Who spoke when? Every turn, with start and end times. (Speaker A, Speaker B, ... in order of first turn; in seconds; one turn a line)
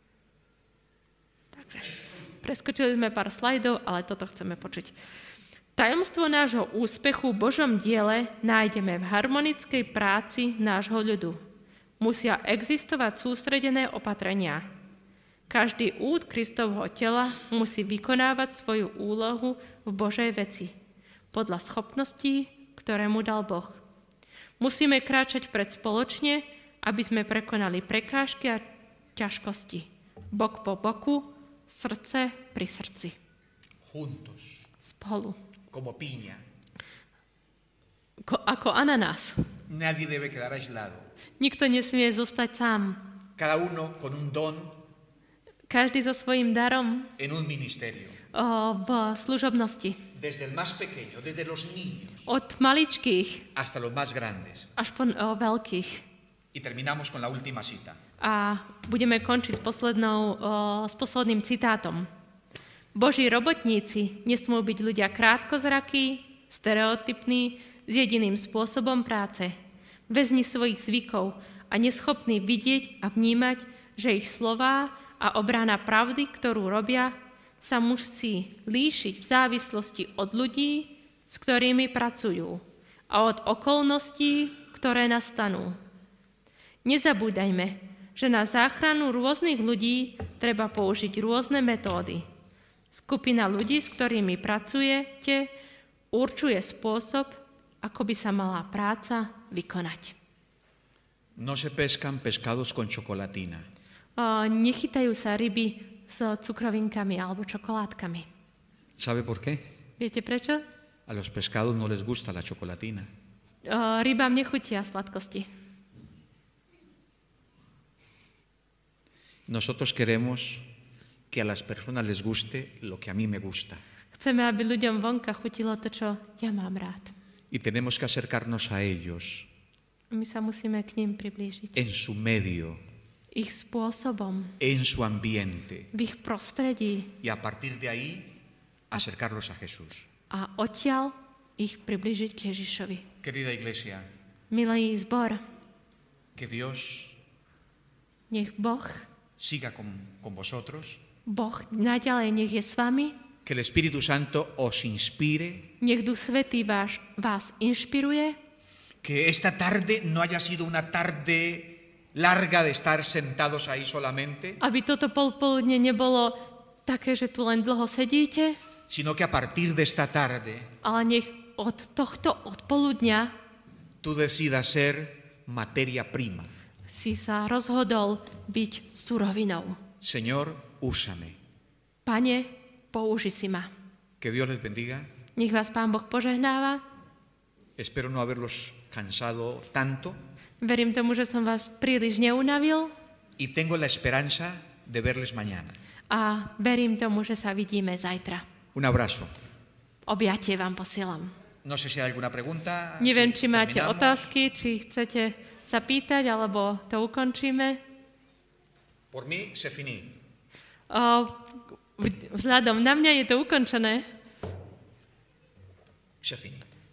Speaker A: 1.5-4.9
Speaker A: 5.8-11.4
Speaker A: 12.0-14.7
Speaker A: 15.5-20.7
Speaker A: 21.3-23.8
Speaker A: 24.6-28.6
Speaker A: 29.1-33.1
Speaker B: 33.8-34.6
Speaker A: 34.8-35.4
Speaker B: 35.7-36.4
Speaker A: 38.2-39.4
Speaker B: 39.7-41.1
Speaker A: 41.4-43.0
Speaker B: 43.4-44.8
Speaker A: 45.7-47.1
Speaker B: 47.2-48.2
Speaker A: 48.3-50.0
Speaker B: 50.1-52.3
Speaker A: 52.3-53.5
Speaker B: 53.5-54.7
Speaker A: 54.8-56.0
Speaker B: 56.5-58.0
Speaker A: 58.2-62.1
Speaker A: 62.9-69.5
Speaker A: 70.1-85.8
Speaker A: 86.8-92.2
Speaker A: 92.9-95.5
Speaker A: 96.1-100.2
Speaker B: 101.3-103.7
Speaker A: 104.2-108.3
Speaker B: 109.0-109.6
Speaker A: 110.0-110.6
Speaker B: 111.1-113.1
Speaker A: 113.6-115.5
Speaker B: 119.5-120.6
Speaker B: 121.3-123.8
Speaker A: 124.1-127.1
Speaker B: 127.5-129.5
Speaker A: 130.1-131.8
Speaker B: 131.7-132.8
Speaker A: 133.3-134.5
Speaker B: 134.6-135.9
Speaker A: 135.9-137.2
Speaker B: 137.2-138.4
Speaker B: 138.9-140.1
Speaker A: 140.3-143.0
Speaker B: 143.2-144.1
Speaker A: 144.5-145.4
Speaker B: 146.3-147.2
Speaker A: 148.3-149.1
Speaker B: 149.4-151.0
Speaker A: 151.2-153.2
Speaker B: 153.4-155.7
Speaker A: 155.8-158.4
Speaker B: 159.0-164.6
Speaker A: 164.6-168.6
Speaker B: 168.9-170.7
Speaker A: 170.8-173.3
Speaker B: 174.0-176.5
Speaker A: 176.9-179.8
Speaker B: 180.0-181.4
Speaker A: 182.0-183.7
Speaker B: 184.2-185.1
Speaker A: 185.3-186.8
Speaker B: 187.8-190.2
Speaker A: 190.6-192.9
Speaker B: 193.4-195.8
Speaker A: 196.1-198.4
Speaker B: 198.7-199.3
Speaker A: 200.1-201.3
Speaker B: 201.6-204.3
Speaker A: 203.0-207.8
Speaker B: 209.1-210.2
Speaker A: 210.9-214.1
Speaker B: 216.2-216.7